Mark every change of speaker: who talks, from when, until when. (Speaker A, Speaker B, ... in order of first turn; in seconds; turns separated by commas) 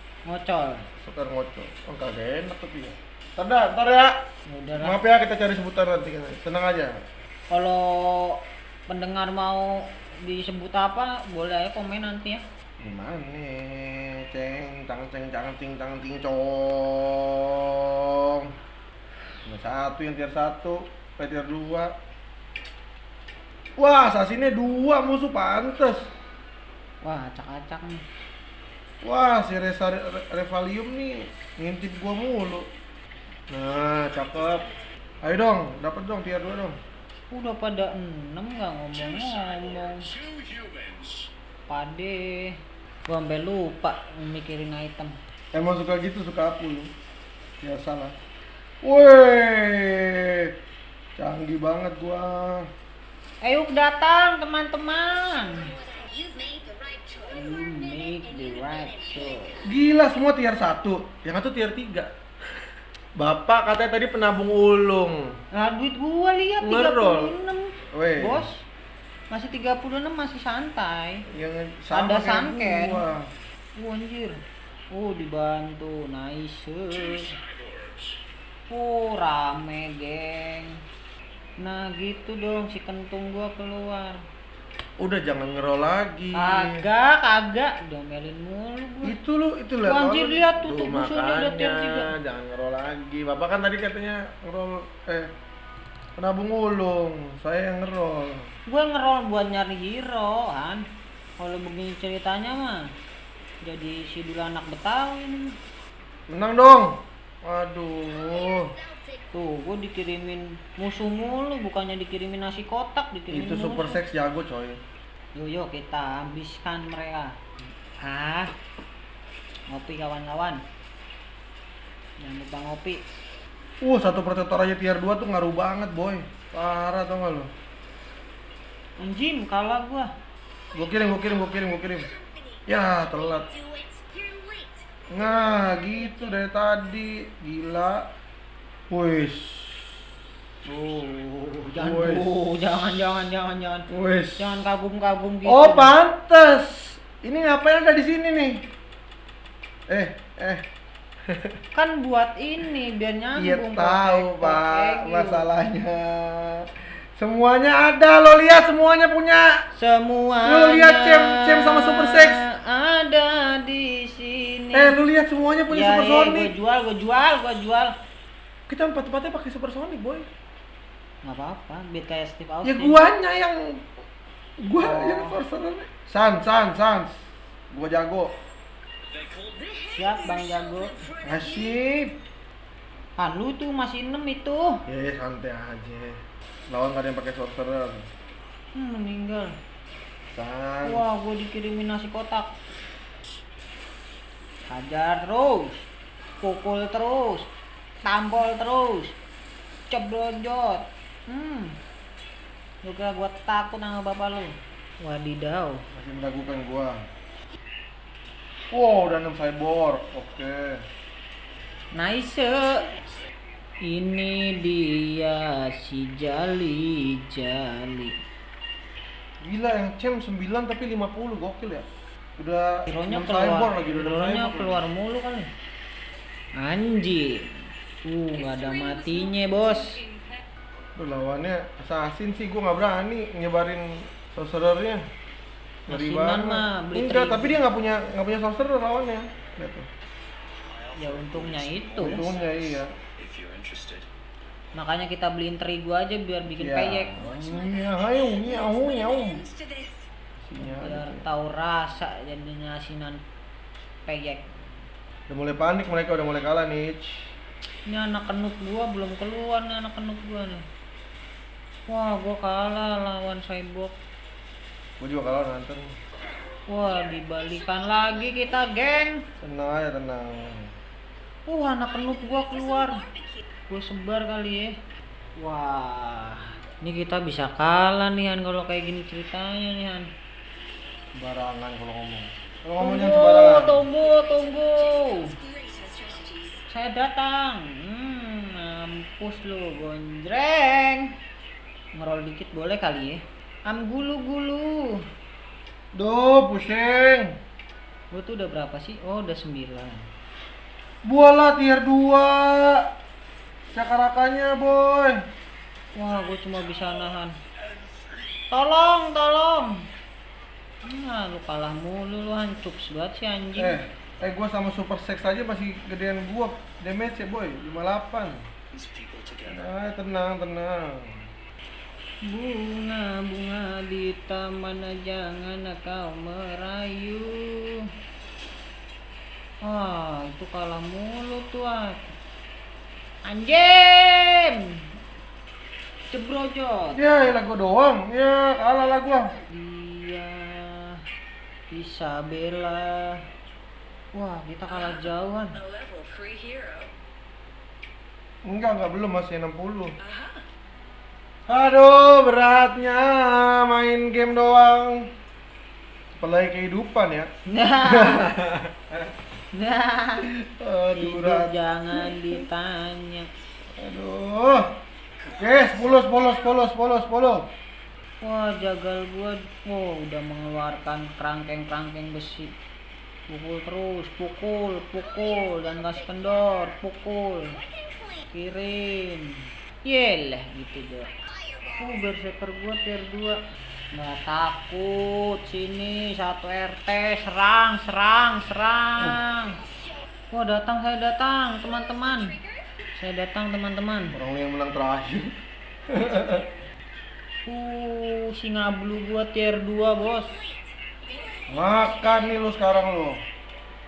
Speaker A: 0.2-0.8, Speaker B: 1.0-4.1, Speaker A: 4.5-5.0, Speaker B: 4.8-7.0, Speaker A: 7.5-12.4, Speaker B: 12.8-18.5, Speaker B: 19.4-21.9, Speaker B: 23.8-26.1, Speaker A: 27.0-28.0, Speaker B: 29.0-32.7, Speaker B: 33.5-34.7, Speaker B: 35.2-36.8, Speaker A: 37.3-40.1, Speaker A: 41.7-42.5, Speaker A: 43.1-45.1, Speaker B: 45.5-46.9, Speaker B: 47.6-48.1, Speaker B: 48.8-50.5, Speaker B: 51.2-52.6, Speaker A: 53.4-55.7, Speaker C: 55.9-57.5, Speaker A: 57.3-59.6, Speaker B: 59.7-62.1, Speaker B: 63.2-65.2, Speaker A: 65.5-68.6, Speaker B: 66.6-67.3, Speaker B: 67.9-68.5, Speaker A: 69.3-71.2, Speaker B: 71.3-73.2, Speaker A: 71.9-73.0, Speaker A: 73.8-74.4, Speaker A: 74.9-77.4, Speaker A: 78.7-80.7, Speaker A: 81.6-84.2, Speaker B: 85.0-86.8, Speaker A: 86.3-89.2, Speaker B: 89.0-95.3, Speaker A: 89.8-92.1, Speaker B: 96.2-98.5, Speaker A: 98.7-100.8, Speaker A: 101.4-102.8, Speaker A: 103.6-105.5, Speaker B: 106.3-108.7, Speaker A: 109.3-114.0, Speaker B: 113.3-114.8, Speaker A: 115.3-117.3, Speaker A: 118.0-118.5, Speaker A: 119.7-120.6, Speaker A: 122.2-123.0, Speaker B: 123.8-127.5, Speaker A: 129.0-130.1, Speaker B: 130.7-132.1, Speaker B: 132.7-133.5, Speaker C: 133.5-134.8, Speaker B: 135.1-138.1, Speaker B: 138.9-139.9, Speaker B: 140.6-142.3, Speaker A: 141.7-143.9, Speaker B: 143.9-144.4, Speaker A: 144.4-145.9, Speaker B: 145.4-148.6, Speaker B: 149.9-150.6, Speaker A: 151.7-155.4, Speaker B: 153.3-159.5, Speaker A: 159.7-165.0, Speaker B: 160.4-162.4, Speaker B: 164.7-166.5, Speaker A: 165.7-167.9, Speaker B: 168.7-170.3, Speaker A: 171.2-173.0, Speaker B: 172.6-174.0, Speaker B: 174.6-178.3, Speaker A: 174.8-175.4, Speaker C: 179.3-179.9, Speaker A: 179.9-181.1, Speaker B: 181.2-182.1, Speaker A: 183.2-184.8, Speaker B: 184.9-186.2, Speaker B: 186.7-188.0, Speaker A: 188.7-189.5, Speaker B: 190.3-191.0, Speaker A: 190.8-192.5, Speaker A: 194.7-195.8, Speaker A: 196.4-197.5, Speaker A: 198.0-199.2, Speaker A: 199.9-201.8, Speaker A: 202.8-205.8, Speaker B: 205.9-207.0, Speaker B: 208.7-210.8, Speaker A: 211.9-212.8, Speaker A: 213.8-218.1, Speaker B: 219.4-221.8, Speaker B: 222.4-224.8, Speaker A: 222.9-225.5, Speaker A: 226.6-227.4, Speaker A: 228.1-230.0, Speaker B: 230.9-235.0, Speaker B: 235.9-239.8, Speaker A: 235.9-237.6, Speaker A: 241.0-242.2, Speaker B: 242.0-242.9, Speaker A: 244.7-247.3, Speaker B: 246.5-249.4, Speaker C: 249.3-250.0, Speaker B: 250.4-251.2, Speaker A: 250.6-253.2, Speaker A: 254.1-254.4, Speaker B: 255.3-257.1, Speaker A: 257.9-260.6, Speaker A: 261.9-263.9, Speaker B: 265.0-265.9, Speaker A: 266.7-269.2, Speaker B: 269.4-270.7, Speaker A: 271.5-273.0, Speaker A: 273.7-274.7, Speaker A: 275.4-280.1, Speaker B: 281.1-283.8, Speaker A: 282.8-285.4, Speaker C: 285.4-286.6, Speaker A: 286.7-291.1, Speaker A: 291.9-295.0, Speaker B: 295.9-297.3, Speaker A: 298.1-300.1, Speaker B: 301.1-302.9, Speaker B: 303.7-305.2, Speaker A: 305.9-307.3, Speaker A: 308.5-309.7, Speaker A: 310.8-313.8, Speaker B: 313.6-318.4, Speaker B: 319.4-321.2, Speaker A: 322.2-327.9, Speaker A: 329.6-332.1, Speaker A: 333.2-334.6, Speaker A: 336.1-336.9, Speaker B: 336.9-339.3, Speaker A: 339.5-341.0, Speaker A: 341.7-343.2, Speaker A: 344.1-345.6, Speaker C: 345.6-346.9, Speaker B: 348.4-349.9, Speaker B: 351.5-355.1, Speaker B: 356.2-357.3, Speaker A: 357.5-358.3, Speaker B: 357.9-359.0, Speaker A: 359.5-360.3, Speaker B: 360.2-362.4, Speaker A: 360.9-363.3, Speaker B: 363.8-364.7, Speaker B: 365.3-367.5, Speaker A: 368.2-372.5, Speaker A: 373.3-377.6, Speaker A: 378.3-381.1, Speaker A: 381.7-383.4, Speaker A: 383.9-389.6, Speaker A: 390.3-392.4, Speaker A: 393.0-394.1, Speaker B: 394.1-395.3, Speaker B: 395.9-396.5, Speaker A: 397.4-400.5, Speaker B: 401.5-403.2